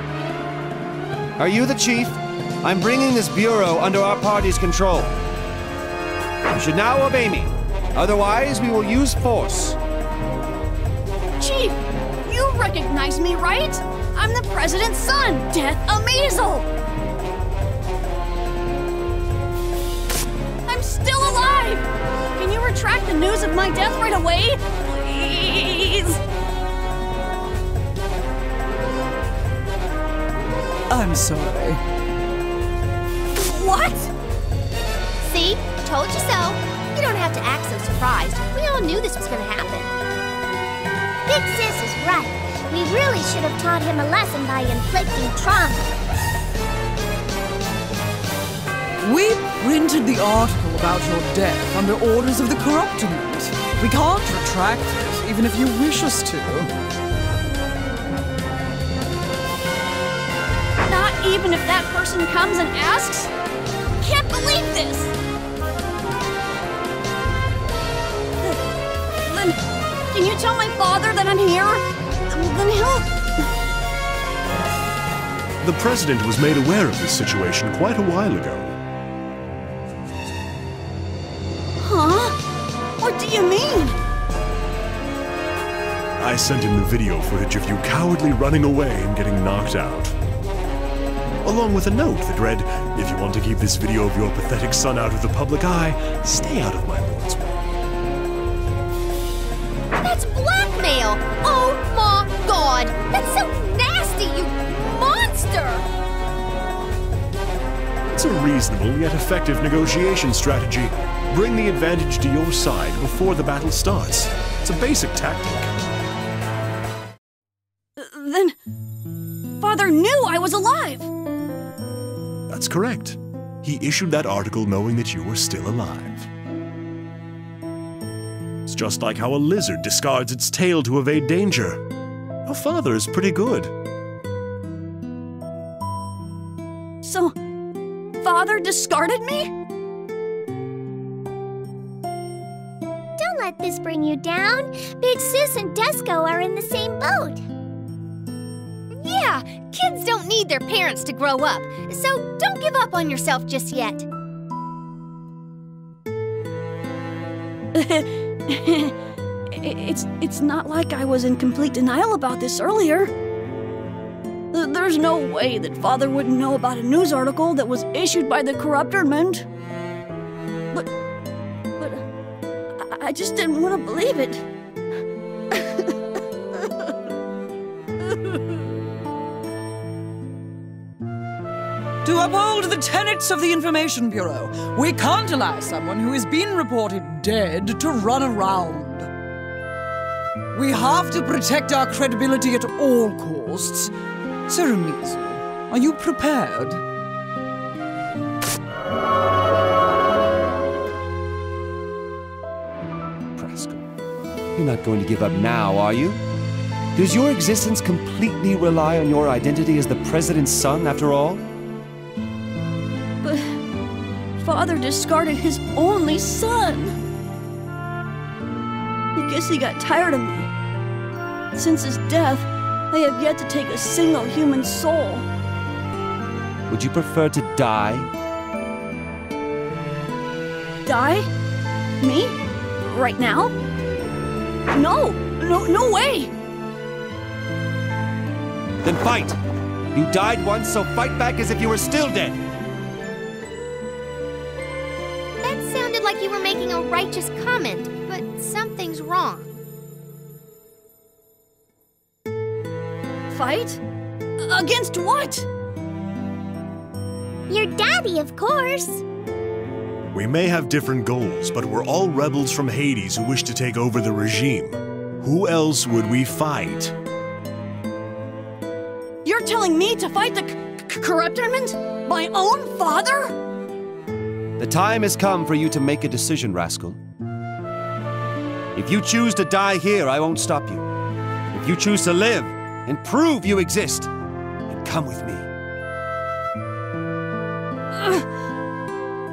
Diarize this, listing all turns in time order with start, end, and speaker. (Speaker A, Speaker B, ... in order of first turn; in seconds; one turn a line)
Speaker A: 1.4-5.1
Speaker A: 6.5-9.8
Speaker B: 11.4-16.7
Speaker B: 20.6-26.2
Speaker C: 30.9-31.8
Speaker B: 33.3-34.1
Speaker D: 35.2-39.9
Speaker E: 41.2-45.9
Speaker C: 49.0-56.7
Speaker B: 60.8-63.3
Speaker B: 64.0-65.1
Speaker B: 69.2-69.6
Speaker B: 70.1-73.1
Speaker F: 75.6-78.8
Speaker B: 81.8-82.3
Speaker B: 83.0-84.0
Speaker F: 86.2-90.1
Speaker F: 91.4-97.6
Speaker D: 100.0-105.8
Speaker F: 108.1-115.7
Speaker B: 118.0-118.5
Speaker B: 119.6-121.1
Speaker F: 122.5-126.3
Speaker F: 128.7-131.8
Speaker F: 132.4-133.7
Speaker B: 137.0-137.3
Speaker B: 138.2-139.5
Speaker E: 143.2-147.4
Speaker D: 148.9-154.1
Speaker B: 157.7-158.9
Speaker B: 159.5-163.1
Speaker B: 164.5-169.4
Speaker B: 171.8-172.0
Speaker B: 172.8-174.4
Speaker B: 175.5-175.9
Speaker B: 176.6-176.9
Speaker C: 182.0-189.1
Speaker C: 190.5-193.9
Speaker C: 194.5-196.8
Speaker A: 203.3-203.8
Speaker A: 204.6-206.2
Speaker A: 206.9-211.4
Speaker B: 214.4-217.0
Speaker B: 219.2-220.5
Speaker B: 221.5-225.3
Speaker A: 226.7-228.1
Speaker B: 230.8-231.3
Speaker B: 232.0-233.5
Speaker B: 234.7-236.3
Speaker A: 238.8-239.4
Speaker A: 239.9-242.4
Speaker D: 245.4-249.6
Speaker B: 253.3-253.8
Speaker B: 254.4-255.5
Speaker E: 257.5-259.0
Speaker F: 260.1-266.9
Speaker B: 269.2-273.3
Speaker A: 274.6-277.0
Speaker A: 278.7-280.9
Speaker A: 281.5-284.1
Speaker A: 284.7-285.5
Speaker B: 287.9-288.2